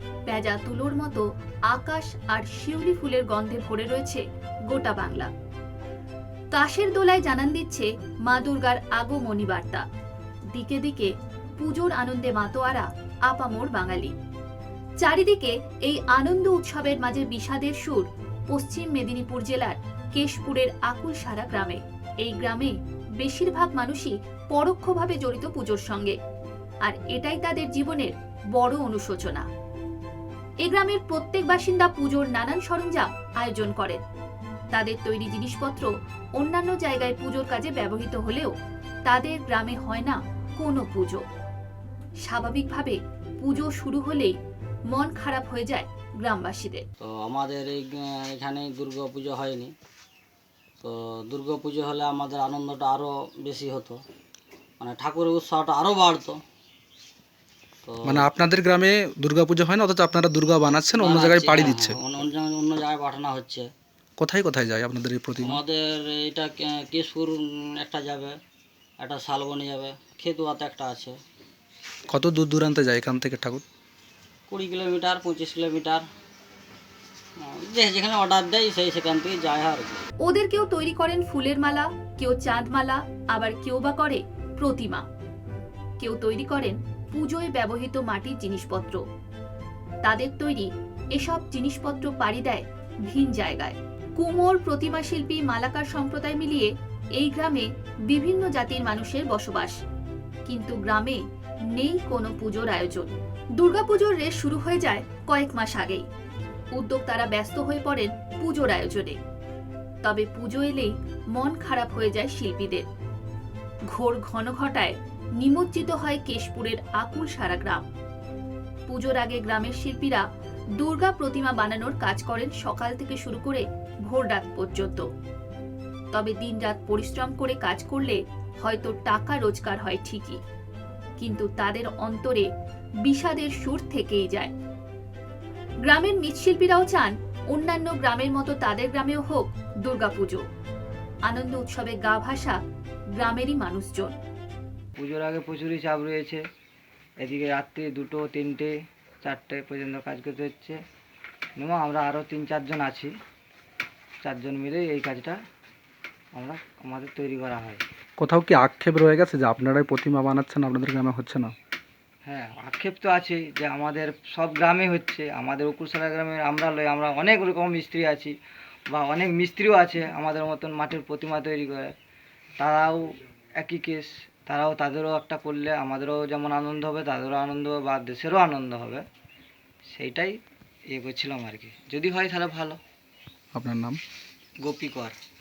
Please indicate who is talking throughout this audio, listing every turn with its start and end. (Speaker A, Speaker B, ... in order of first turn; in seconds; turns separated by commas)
Speaker A: 0.3-5.3, Speaker A: 6.5-9.8, Speaker A: 10.5-14.2, Speaker A: 15.0-26.2, Speaker A: 26.8-29.5, Speaker A: 30.6-34.0, Speaker A: 34.7-38.5, Speaker A: 39.1-41.2, Speaker A: 42.2-44.4, Speaker A: 44.9-46.9, Speaker B: 47.0-49.7, Speaker B: 50.8-54.0, Speaker B: 54.8-56.4, Speaker B: 57.9-58.3, Speaker C: 58.0-62.0, Speaker B: 61.0-63.7, Speaker C: 64.2-65.6, Speaker B: 65.4-68.3, Speaker B: 69.0-71.2, Speaker C: 72.1-73.7, Speaker B: 74.5-76.0, Speaker B: 77.4-80.0, Speaker A: 80.2-85.1, Speaker A: 86.0-89.0, Speaker A: 90.0-99.8, Speaker A: 100.5-101.2, Speaker A: 101.7-106.1, Speaker A: 106.8-109.2, Speaker A: 110.0-112.9, Speaker A: 113.9-117.8, Speaker A: 118.9-120.2, Speaker A: 120.8-125.1, Speaker A: 126.1-130.4, Speaker A: 131.2-132.5, Speaker A: 133.1-134.5, Speaker A: 135.8-140.4, Speaker A: 141.3-142.6, Speaker A: 143.2-144.2, Speaker D: 145.0-146.4, Speaker D: 147.2-150.8, Speaker D: 151.6-153.1, Speaker D: 154.2-155.4, Speaker D: 156.3-157.8, Speaker C: 158.2-161.5, Speaker D: 162.3-168.3, Speaker D: 168.9-171.9, Speaker D: 172.6-173.0, Speaker D: 173.6-179.0, Speaker D: 179.9-180.3, Speaker D: 180.9-182.8, Speaker C: 183.5-184.0, Speaker D: 184.6-185.2